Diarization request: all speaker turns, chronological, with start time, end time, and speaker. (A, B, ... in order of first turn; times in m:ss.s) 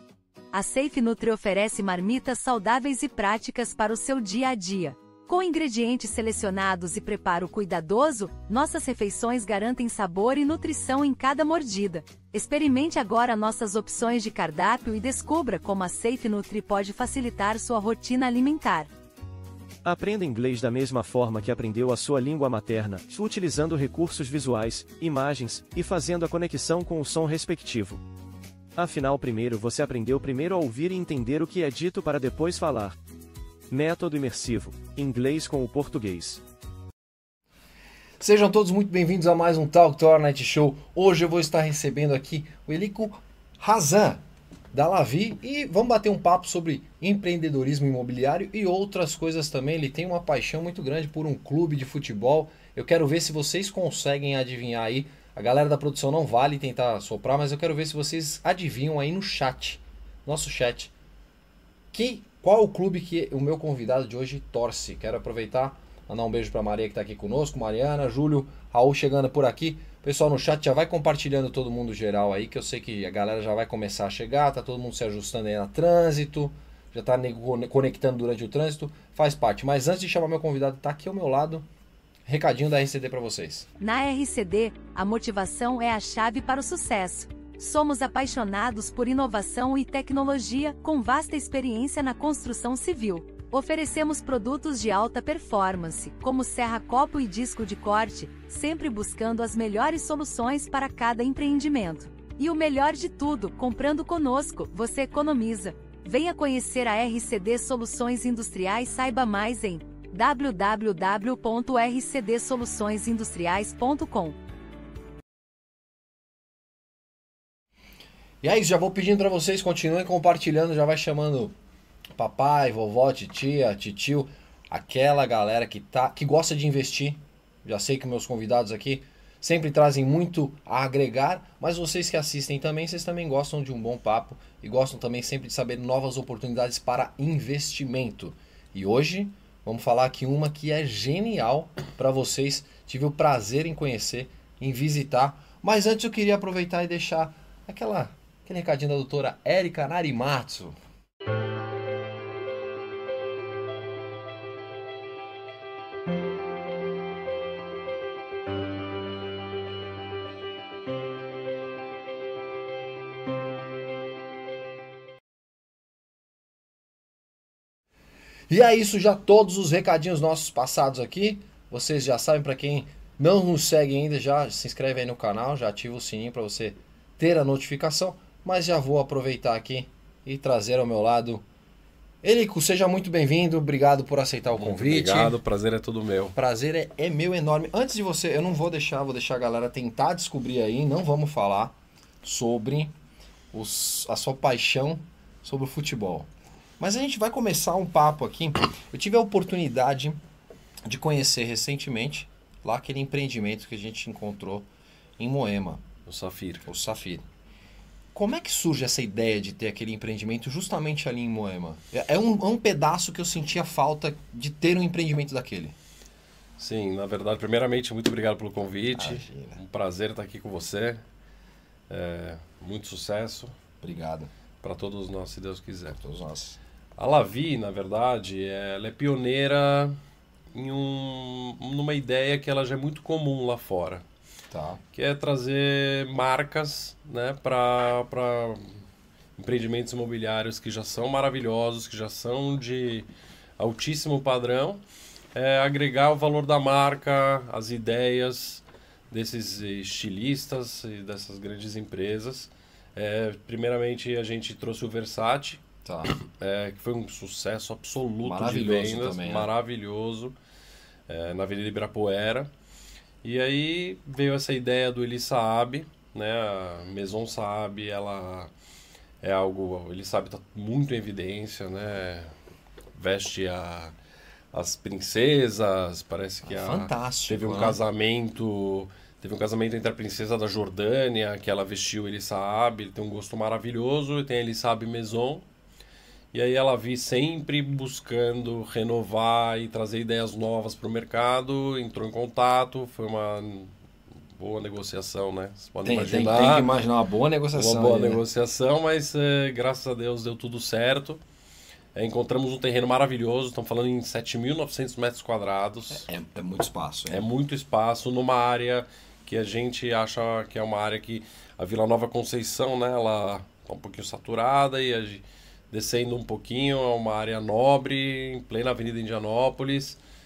0:00.5-0:18.9 A
0:19.8-0:28.0 B
0:28.8-0:33.0 B
0:33.7-0:36.4 B
0:38.2-0:44.2 C
0:44.7-1:00.9 C
1:01.9-1:21.6 C
1:22.2-1:23.6 C
1:23.8-1:54.4 A
1:58.4-2:01.5 C
2:02.2-2:30.8 C
2:48.5-3:01.4 C
3:02.2-3:05.4 C
3:04.6-3:06.3 D
3:06.3-3:12.9 C
3:13.5-3:16.3 C
3:16.8-3:20.2 C
3:20.8-3:24.7 C
3:25.2-3:25.8 C
3:26.1-3:26.6 D
3:26.6-3:27.2 C
3:28.1-3:35.7 C
3:36.6-3:41.0 D
3:38.9-3:39.6 C
3:41.9-3:43.5 D
3:43.8-3:44.3 C
3:44.6-3:46.0 D
3:46.0-3:46.6 C
3:47.0-3:50.0 D
3:50.5-3:54.0 D
3:54.5-3:54.8 C
3:54.9-3:58.8 D
3:59.4-4:04.8 D
4:05.3-4:20.3 D
4:15.8-4:16.1 C
4:18.2-4:19.5 C
4:21.1-4:22.5 D
4:23.2-4:28.5 D
4:29.2-4:32.3 D
4:32.9-4:33.9 D
4:34.5-4:45.4 D
4:36.4-4:37.8 C
4:46.3-4:53.7 D
4:54.3-4:56.7 D
4:55.8-4:58.2 C
4:57.5-5:01.2 D
5:01.9-5:06.1 D
5:05.9-5:07.2 C
5:07.1-5:20.0 D